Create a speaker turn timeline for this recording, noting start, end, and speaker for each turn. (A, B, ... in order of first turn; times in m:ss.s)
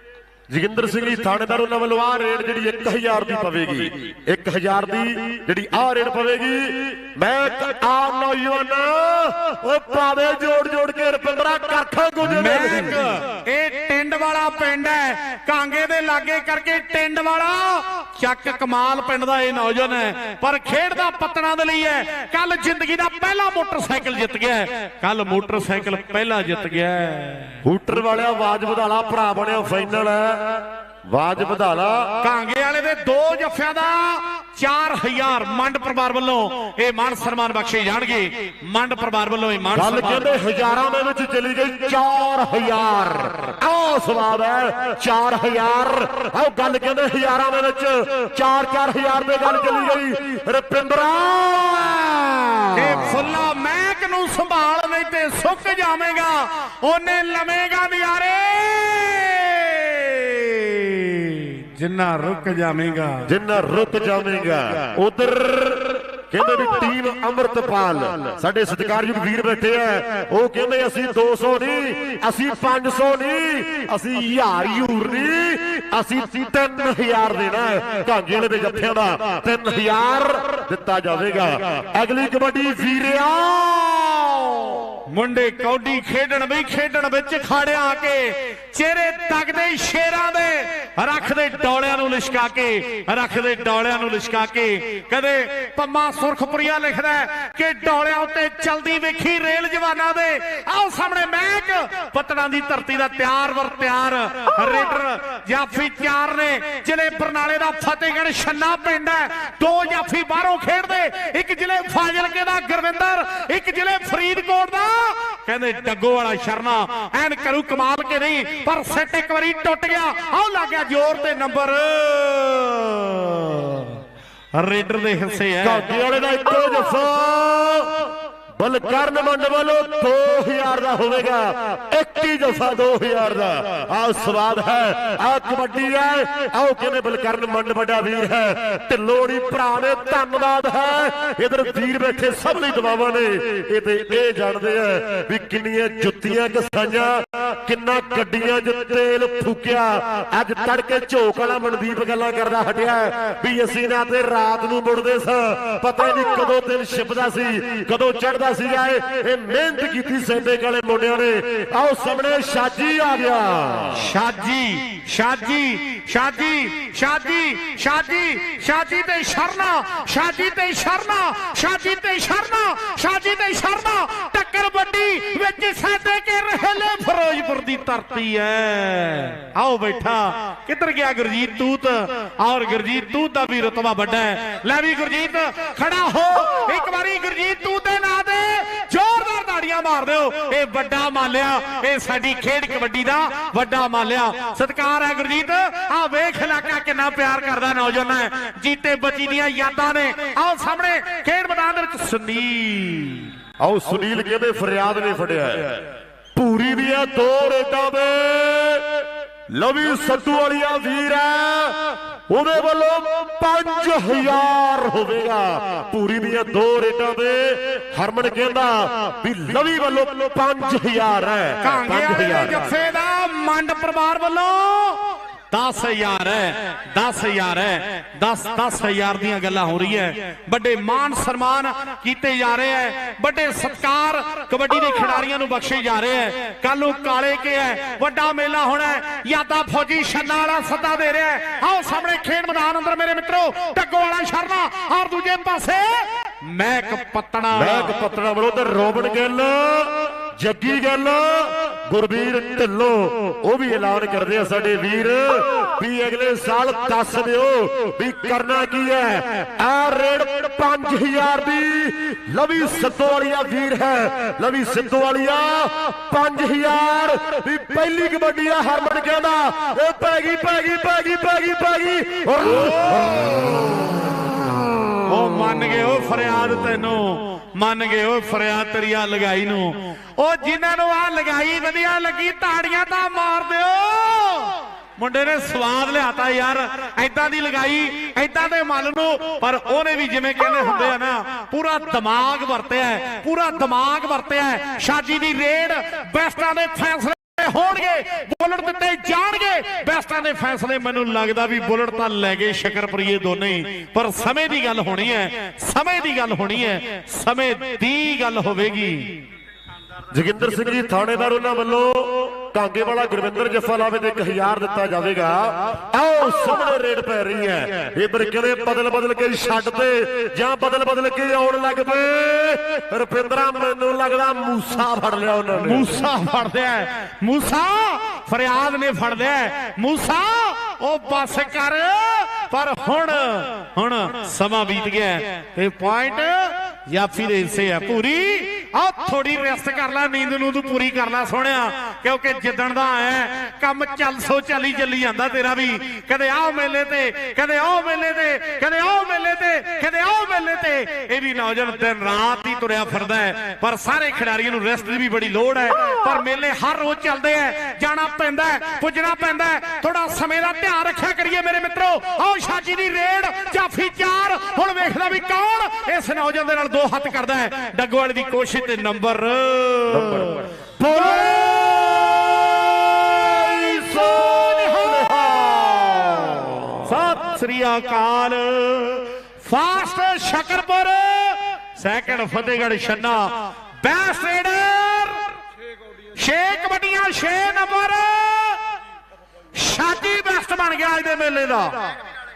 0:00.5-0:13.1 A
0:12.3-0:27.6 B
0:27.6-0:32.2 A
0:32.2-0:40.3 B
0:39.8-0:53.2 A
0:52.8-1:03.3 B
1:03.3-1:24.9 A
1:25.1-2:04.0 B
2:04.6-2:05.9 B
2:05.6-2:44.0 A
2:44.0-3:23.3 B
3:23.6-3:42.8 A
3:41.6-4:07.9 B
4:07.6-4:34.3 A
4:32.6-4:33.5 B
4:35.1-5:09.2 B
5:10.1-5:25.9 A
5:25.6-6:11.6 B
6:09.9-6:16.9 A
6:14.1-6:15.1 B
6:16.9-6:23.3 B
6:23.8-6:25.4 B
6:26.2-6:28.6 B
6:29.6-6:31.9 B